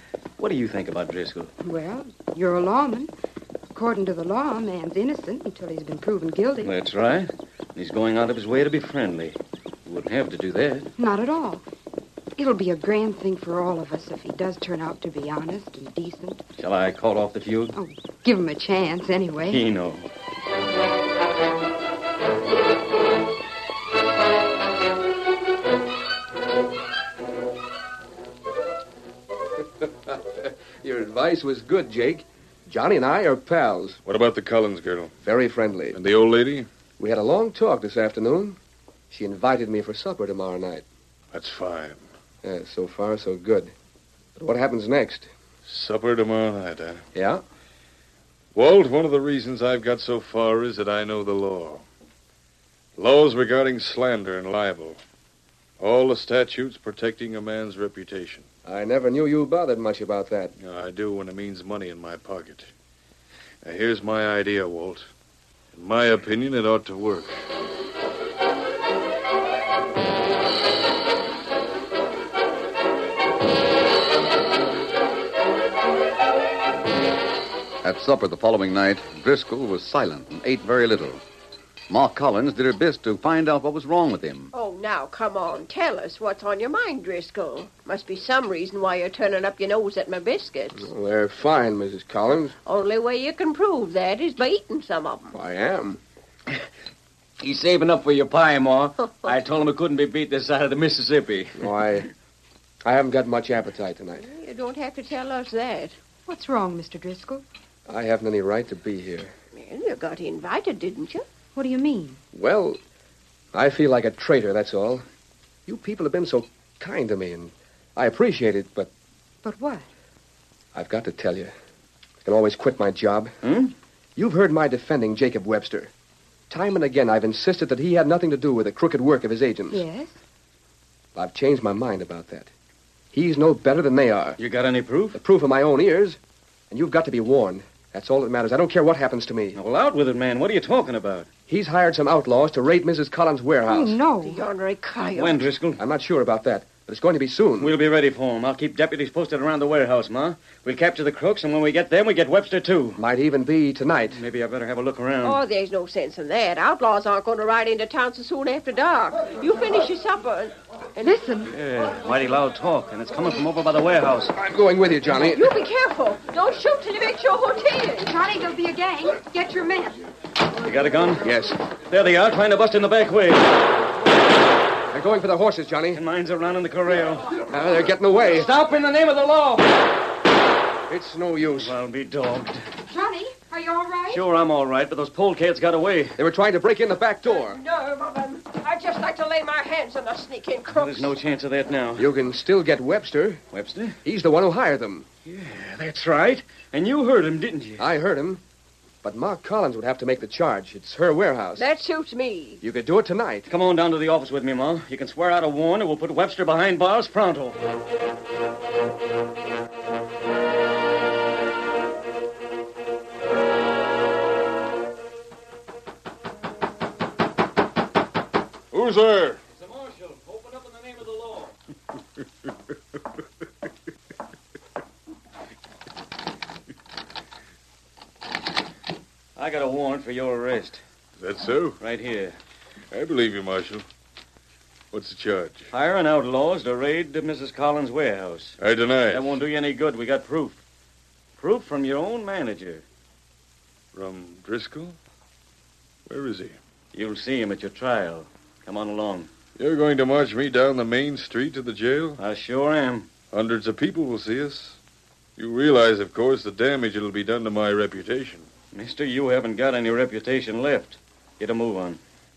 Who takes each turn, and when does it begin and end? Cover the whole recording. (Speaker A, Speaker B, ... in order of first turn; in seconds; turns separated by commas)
Speaker A: 0.4-1.5, Speaker B: 1.6-3.1, Speaker B: 3.7-6.7, Speaker A: 6.6-10.9, Speaker B: 11.0-11.6, Speaker B: 12.4-16.4, Speaker A: 16.6-17.8, Speaker B: 17.8-19.6, Speaker A: 19.5-20.1, Speaker C: 29.8-34.0, Speaker D: 34.1-35.1, Speaker C: 35.2-36.0, Speaker D: 35.9-36.7, Speaker C: 37.0-38.6, Speaker C: 39.1-40.9, Speaker D: 41.3-42.0, Speaker C: 42.4-43.7, Speaker C: 44.4-45.3, Speaker D: 45.6-47.0, Speaker C: 47.1-47.4, Speaker D: 48.5-51.8, Speaker D: 53.0-55.0, Speaker D: 55.8-58.5, Speaker C: 58.6-60.5, Speaker D: 60.6-62.7, Speaker D: 63.6-65.1, Speaker D: 65.7-67.4, Speaker E: 77.8-81.2, Speaker E: 81.9-84.5, Speaker F: 84.5-90.9, Speaker C: 90.8-92.6, Speaker F: 92.7-95.3, Speaker C: 95.3-96.0, Speaker A: 97.4-101.7, Speaker C: 101.6-102.1, Speaker C: 102.8-104.3, Speaker F: 104.2-106.0, Speaker B: 106.3-107.4, Speaker C: 107.9-109.3, Speaker F: 109.5-111.3, Speaker B: 111.5-112.2, Speaker C: 112.3-112.8, Speaker C: 113.5-115.0, Speaker C: 115.7-118.9, Speaker B: 119.4-119.9, Speaker C: 120.7-121.5, Speaker C: 122.2-123.3, Speaker A: 123.4-123.7, Speaker C: 124.2-125.9, Speaker C: 126.5-129.8, Speaker B: 129.7-130.2, Speaker C: 131.2-132.5, Speaker C: 133.1-134.4, Speaker A: 134.4-135.2, Speaker C: 135.1-136.2, Speaker C: 136.7-139.6, Speaker A: 139.6-141.3, Speaker C: 141.5-144.0, Speaker B: 143.7-144.5, Speaker F: 144.2-145.5, Speaker A: 145.2-145.8, Speaker C: 145.8-147.7, Speaker A: 147.6-153.0, Speaker C: 153.0-154.2, Speaker A: 154.1-155.4, Speaker F: 155.2-161.2, Speaker B: 161.0-161.5, Speaker A: 161.5-164.3, Speaker C: 164.3-165.6, Speaker F: 165.2-168.1, Speaker B: 168.0-170.0, Speaker A: 170.6-171.3, Speaker C: 171.2-171.6, Speaker A: 171.9-173.6, Speaker C: 174.9-176.0, Speaker A: 175.9-177.4, Speaker C: 177.5-178.5, Speaker A: 178.2-179.8, Speaker C: 180.9-181.7, Speaker A: 181.5-182.7, Speaker B: 182.9-184.2, Speaker A: 184.1-186.2, Speaker C: 186.2-187.6, Speaker F: 187.2-191.2, Speaker A: 190.7-192.1, Speaker C: 192.0-193.4, Speaker A: 193.5-194.0, Speaker C: 194.0-195.1, Speaker A: 195.2-197.9, Speaker C: 197.8-198.4, Speaker C: 199.0-201.7, Speaker F: 201.6-202.6, Speaker C: 202.6-203.5, Speaker A: 203.5-207.6, Speaker D: 218.7-219.4, Speaker A: 219.5-221.5, Speaker A: 229.4-230.8, Speaker D: 231.2-231.8, Speaker A: 231.8-232.4, Speaker D: 232.9-233.9, Speaker D: 234.9-235.7, Speaker A: 235.7-238.6, Speaker D: 238.6-239.4, Speaker A: 239.1-240.6, Speaker A: 241.4-242.8, Speaker D: 243.9-245.0, Speaker D: 246.1-246.6, Speaker A: 246.9-249.3, Speaker D: 249.6-252.2, Speaker A: 252.2-253.1, Speaker D: 253.3-254.8, Speaker D: 255.4-258.5, Speaker A: 258.7-262.0